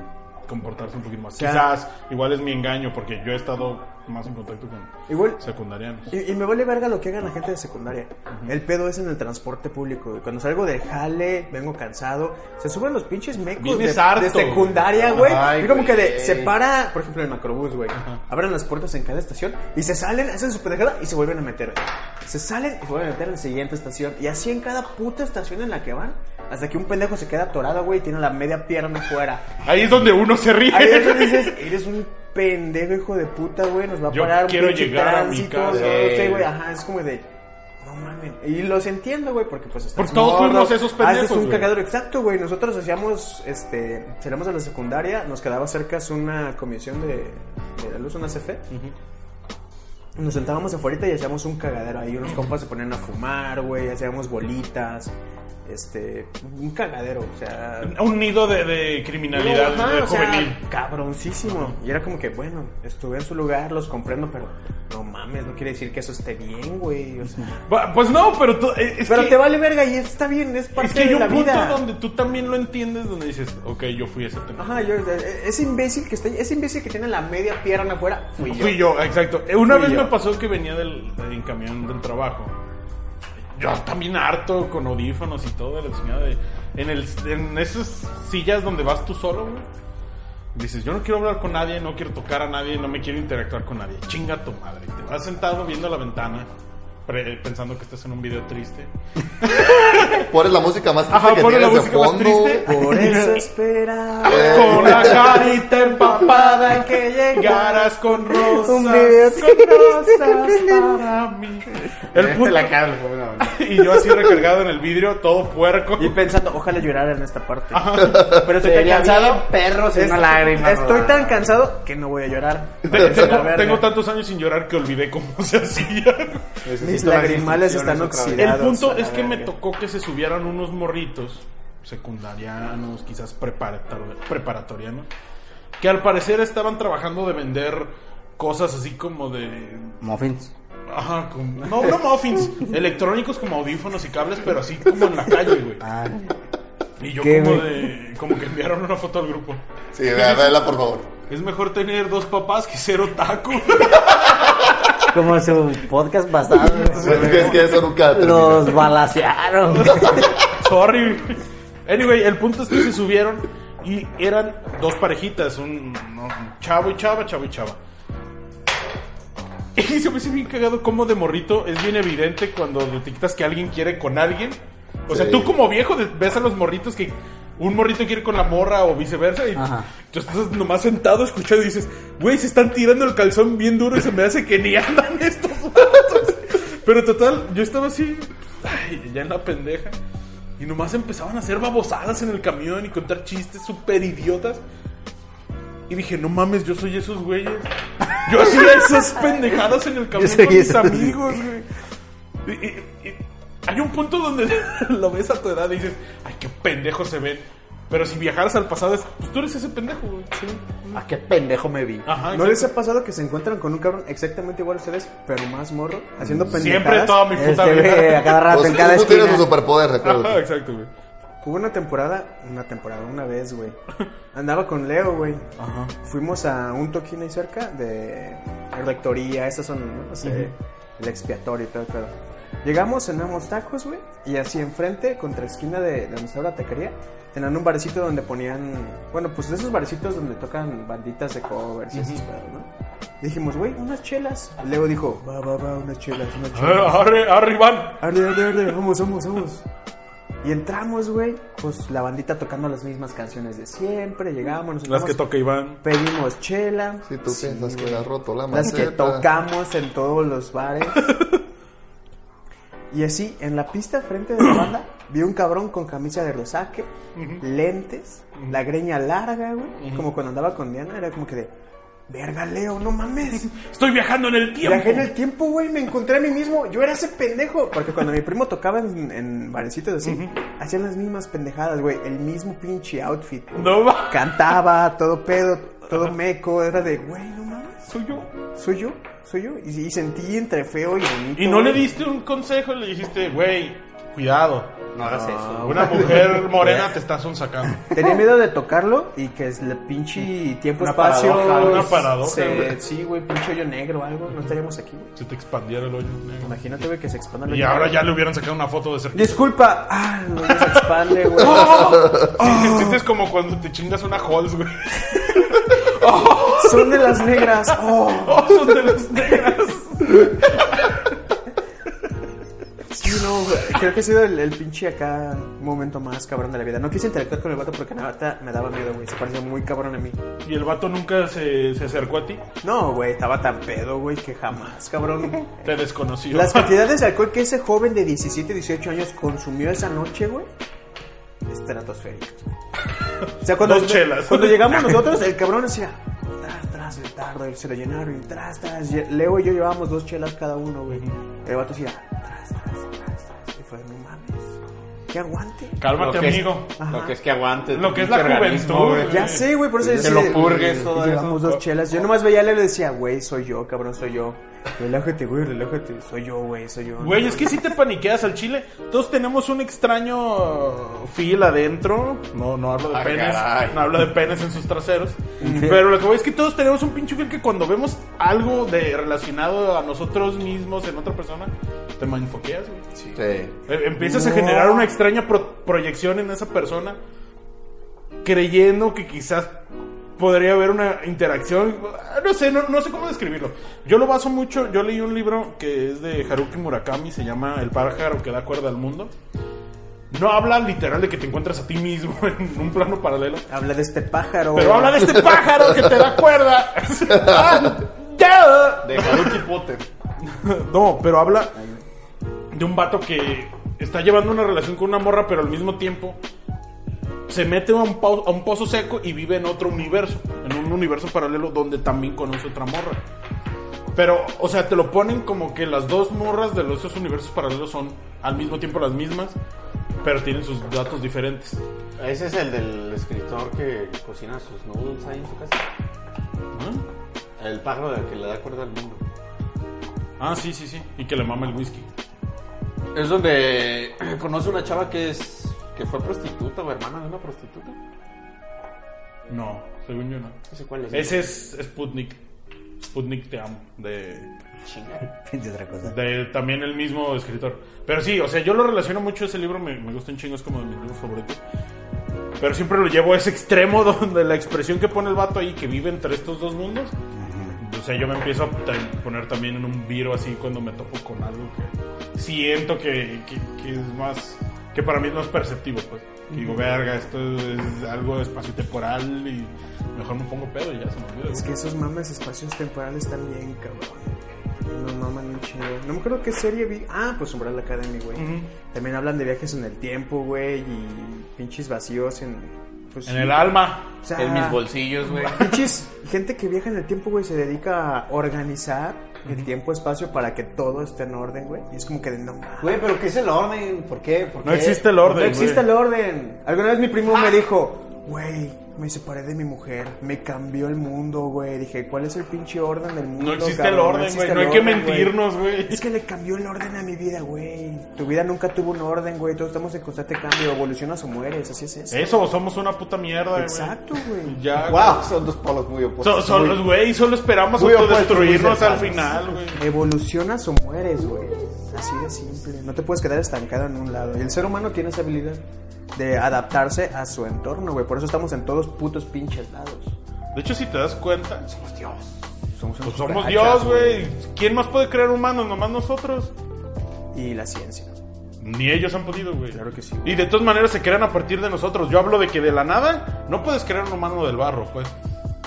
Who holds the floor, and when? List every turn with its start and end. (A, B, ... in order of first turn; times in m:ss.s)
0:00.5-0:06.1 A
0:01.4-0:01.7 B
0:05.1-0:05.4 B
0:06.1-0:29.5 B
0:13.6-0:15.3 A
0:15.0-0:16.5 C
0:29.6-0:31.6 A
0:30.7-0:37.3 B
0:34.1-0:36.5 A
0:35.7-0:36.4 C
0:37.8-0:48.6 B
0:40.0-0:41.8 A
0:50.2-0:55.1 B
0:55.6-0:58.0 B
0:57.8-1:00.6 A
0:59.3-1:07.6 B
1:01.4-1:01.7 A
1:07.7-1:09.4 A
1:09.1-1:11.8 B
1:10.8-1:14.8 A
1:14.6-1:18.8 B
1:18.4-1:22.5 A
1:19.6-1:20.1 B
1:23.6-1:29.6 A
1:30.5-1:36.5 A
1:37.0-1:40.3 A
1:40.1-1:42.6 D
1:41.1-1:43.2 A
1:42.6-1:48.8 B
1:42.9-1:43.4 E
1:44.2-1:45.3 D
1:44.2-1:52.8 A
1:48.6-1:51.0 E
1:52.1-1:53.6 C
1:53.4-1:56.2 A
1:56.0-2:03.9 B
1:57.7-1:58.5 A
1:58.5-2:01.5 C
2:02.8-2:06.6 A
2:06.6-2:08.6 C
2:06.8-2:09.5 B
2:08.4-2:15.1 A
2:15.8-2:20.0 A
2:20.0-2:20.5 E
2:20.9-2:25.8 A
2:25.8-2:26.3 E
2:27.0-2:29.6 A
2:27.2-2:27.9 E
2:29.9-2:31.1 D
2:30.1-2:30.6 A
2:31.3-2:35.0 A
2:35.1-2:40.3 E
2:36.8-2:37.7 A
2:37.0-2:38.9 D
2:39.8-2:47.8 A
2:49.8-3:09.9 A
2:55.1-2:55.5 D
2:59.6-2:59.9 E
3:10.6-3:14.6 A
3:15.9-3:17.7 A
3:18.2-3:21.7 A
3:20.1-3:21.4 E
3:22.4-3:31.0 A
3:30.3-3:30.6 B
3:30.9-3:32.1 C
3:32.0-3:32.7 A
3:32.2-3:37.3 B
3:36.5-3:38.6 A
3:37.3-3:39.5 E
3:38.5-3:40.4 D
3:40.0-3:40.9 A
3:41.4-3:43.8 B
3:44.3-3:45.4 B
3:45.6-3:45.9 A
3:46.0-4:02.7 B
3:50.2-3:50.5 A
4:01.9-4:02.2 A
4:03.2-4:07.1 B
4:06.5-4:08.0 A
4:08.0-4:09.6 B
4:10.4-4:15.2 B
4:14.9-4:15.8 A
4:15.8-4:21.2 B
4:17.1-4:19.2 D
4:21.0-4:21.4 A
4:22.9-4:26.9 B
4:27.2-4:27.4 A
4:27.4-4:31.5 B
4:32.1-4:33.5 B
4:33.4-4:35.1 A
4:34.6-4:47.9 B
4:40.0-4:40.4 A
4:43.5-4:44.5 A
4:47.9-4:48.3 A
4:48.4-4:51.8 B
4:51.4-4:54.7 A
4:54.9-4:56.3 C
4:55.0-4:56.9 B
4:55.6-4:57.9 A
4:57.9-5:05.1 B
5:00.8-5:02.1 C
5:01.4-5:02.8 A
5:05.2-5:06.8 A
5:06.4-5:08.0 B
5:07.5-5:09.4 A
5:09.1-5:13.0 B
5:10.5-5:10.8 A
5:11.4-5:17.5 A
5:16.5-5:18.9 B
5:18.1-5:21.0 A
5:22.9-5:30.2 B
5:30.4-5:32.4 A
5:32.6-5:35.7 B
5:35.4-5:36.8 A
5:36.3-5:40.5 B
5:41.4-5:42.5 B
5:43.2-5:45.1 A
5:43.4-5:54.5 B
5:50.9-5:51.1 A
5:55.1-5:55.9 B
5:55.8-5:56.7 A
5:55.9-6:01.5 C
5:56.8-5:57.1 B
5:57.7-6:00.5 A
5:59.0-6:07.6 B
6:07.0-6:22.8 A
6:12.9-6:13.9 C
6:15.4-6:15.8 B
6:15.4-6:15.8 E
6:23.2-6:23.5 D
6:23.7-6:27.0 A
6:24.0-6:24.8 B
6:28.2-6:29.6 A
6:30.2-6:39.1 A
6:40.1-6:43.4 A
6:43.5-6:45.4 B
6:44.5-6:49.4 A
6:47.1-6:47.6 D
6:48.8-6:49.8 C
6:50.2-6:51.5 A
6:52.5-6:56.2 A
6:57.3-7:03.0 A
7:03.9-7:09.3 A
7:10.0-7:11.6 A
7:12.0-7:15.6 C
7:16.5-7:16.8 A
7:17.4-7:19.0 C
7:20.2-7:21.9 A
7:22.9-7:27.8 C
7:29.3-7:30.4 A
7:30.5-7:31.3 C
7:30.9-7:32.2 A
7:32.8-7:34.3 A
7:34.6-7:35.0 C
7:35.3-7:35.9 E
7:35.8-7:41.4 A
7:42.4-7:46.9 A
7:47.2-7:47.6 E
7:47.6-8:01.5 A
7:56.3-7:56.6 B
8:01.3-8:22.8 B
8:08.2-8:08.5 A
8:13.0-8:13.9 A
8:14.1-8:15.5 C
8:22.6-8:24.9 C
8:24.4-8:25.7 A
8:25.0-8:35.2 B
8:33.2-8:35.8 A
8:35.7-8:42.1 B
8:41.9-8:45.1 A
8:43.3-8:44.4 B
8:44.6-8:46.7 C
8:46.0-8:49.6 A
8:47.6-8:49.4 C
8:49.6-8:55.4 B
8:55.9-8:59.9 B
9:00.3-9:01.4 A
9:01.5-9:02.0 B
9:02.5-9:04.1 B
9:02.8-9:06.3 A
9:07.1-9:07.9 B
9:08.4-9:14.9 A
9:09.5-9:10.2 B